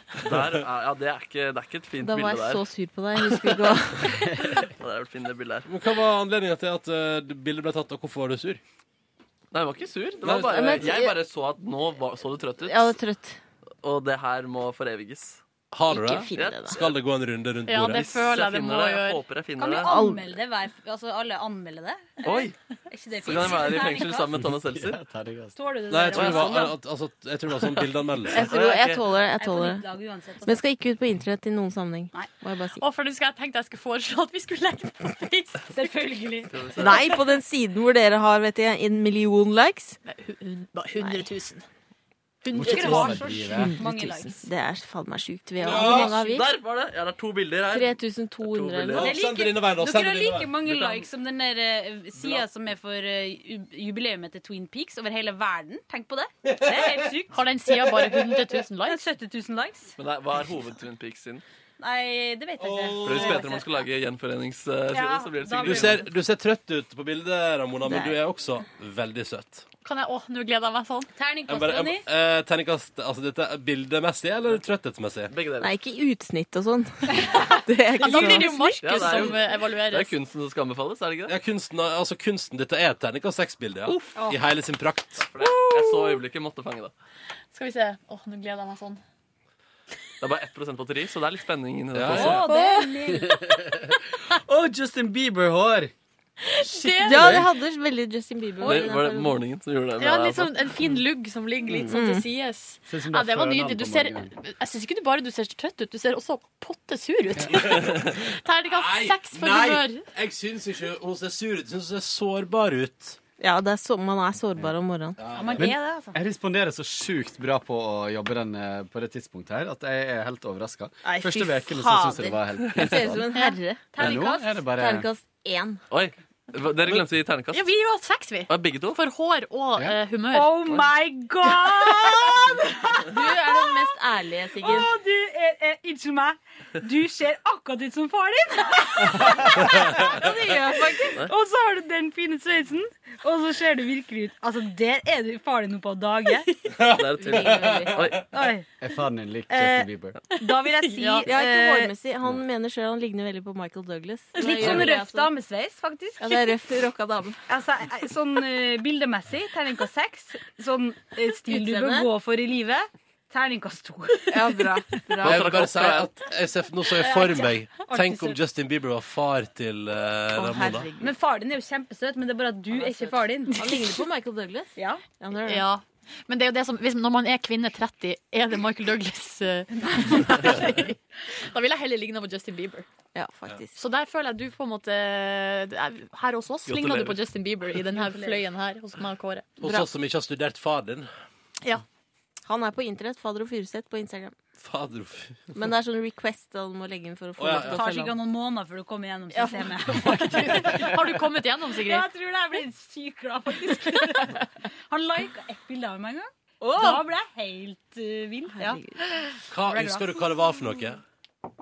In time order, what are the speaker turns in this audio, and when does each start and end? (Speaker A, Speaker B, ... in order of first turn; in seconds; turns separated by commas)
Speaker A: 0.2-2.6, Speaker B: 2.0-4.5, Speaker A: 3.2-5.7, Speaker C: 5.7-8.6, Speaker A: 9.5-12.9, Speaker C: 10.2-10.8, Speaker B: 10.5-11.1, Speaker B: 12.6-13.4, Speaker A: 13.8-15.4, Speaker C: 15.7-18.1, Speaker B: 15.9-16.8, Speaker A: 16.4-16.7, Speaker D: 17.7-19.2, Speaker A: 18.1-19.9, Speaker E: 19.6-22.3, Speaker B: 19.9-20.4, Speaker A: 22.2-22.6, Speaker E: 22.9-24.3, Speaker A: 23.2-25.0, Speaker F: 24.4-25.6, Speaker E: 25.6-26.8, Speaker C: 25.9-28.4, Speaker A: 26.1-26.7, Speaker A: 27.6-29.0, Speaker B: 28.3-29.9, Speaker E: 29.4-30.6, Speaker B: 30.5-32.8, Speaker D: 32.8-35.7, Speaker E: 35.7-37.2, Speaker A: 36.5-37.1, Speaker B: 36.8-40.0, Speaker D: 40.1-41.6, Speaker D: 42.4-43.3, Speaker F: 42.5-43.8, Speaker E: 42.7-44.5, Speaker B: 43.6-46.5, Speaker C: 45.6-46.1, Speaker A: 45.9-49.1, Speaker B: 47.7-49.1, Speaker C: 49.0-50.6, Speaker E: 49.0-57.4, Speaker A: 50.7-51.0, Speaker C: 56.5-57.1, Speaker D: 57.3-59.1, Speaker C: 57.8-58.5, Speaker E: 58.9-60.0, Speaker A: 60.0-61.4, Speaker E: 61.8-63.7, Speaker C: 62.6-63.6, Speaker A: 63.0-66.0, Speaker E: 64.9-66.1, Speaker C: 65.6-69.7, Speaker B: 67.8-68.2, Speaker D: 69.8-71.1, Speaker E: 71.2-72.0, Speaker C: 71.5-75.3, Speaker A: 75.3-75.7, Speaker B: 75.6-79.3, Speaker D: 78.0-80.1, Speaker A: 78.8-81.3, Speaker C: 81.3-85.3, Speaker A: 85.3-86.9, Speaker D: 85.4-86.2, Speaker D: 87.5-89.0, Speaker A: 90.2-92.5, Speaker C: 91.9-92.5, Speaker E: 92.1-93.4, Speaker B: 92.5-92.8, Speaker F: 93.1-95.9, Speaker D: 96.4-97.4, Speaker F: 96.7-97.5, Speaker B: 97.0-99.4, Speaker A: 98.6-100.7, Speaker D: 100.0-110.0, Speaker B: 101.9-102.2, Speaker F: 102.9-104.3, Speaker C: 107.5-113.2, Speaker B: 113.4-115.2, Speaker C: 115.2-115.7, Speaker E: 115.3-116.2, Speaker F: 115.6-123.3, Speaker B: 121.1-124.1, Speaker A: 122.8-123.0, Speaker E: 123.9-124.6, Speaker F: 124.0-125.1, Speaker B: 124.7-125.8, Speaker A: 125.9-127.7, Speaker D: 127.5-130.6, Speaker A: 128.5-129.0, Speaker E: 130.3-132.5, Speaker B: 133.0-134.9, Speaker E: 133.5-133.8, Speaker E: 134.6-139.7, Speaker C: 139.6-140.1, Speaker B: 140.1-141.2, Speaker E: 140.9-146.5, Speaker C: 146.8-148.2, Speaker A: 146.9-148.3, Speaker B: 147.4-147.8, Speaker E: 148.3-148.7, Speaker F: 148.8-150.2, Speaker E: 149.5-151.9, Speaker D: 150.4-151.3, Speaker B: 151.2-155.3, Speaker E: 154.3-156.5, Speaker B: 156.2-157.4, Speaker E: 157.5-164.7, Speaker B: 161.5-162.1, Speaker B: 164.3-165.6, Speaker A: 165.2-166.1, Speaker C: 165.2-170.9, Speaker E: 166.9-168.4, Speaker B: 170.3-171.2, Speaker E: 171.0-173.6, Speaker B: 172.7-175.7, Speaker D: 173.5-173.8, Speaker E: 174.8-175.0, Speaker D: 175.4-182.9, Speaker E: 179.8-180.5, Speaker B: 183.2-183.8, Speaker D: 183.8-189.5, Speaker A: 186.7-187.2, Speaker E: 187.9-188.4, Speaker C: 189.6-191.1, Speaker B: 189.6-189.9, Speaker B: 192.4-194.3, Speaker C: 194.6-195.5, Speaker B: 195.5-198.2, Speaker C: 197.4-197.9, Speaker E: 197.7-200.6, Speaker B: 199.3-200.2, Speaker D: 200.0-202.1, Speaker E: 201.8-204.3, Speaker E: 204.9-208.8, Speaker B: 206.6-207.1, Speaker B: 208.5-208.9, Speaker C: 209.5-211.0, Speaker E: 209.6-210.1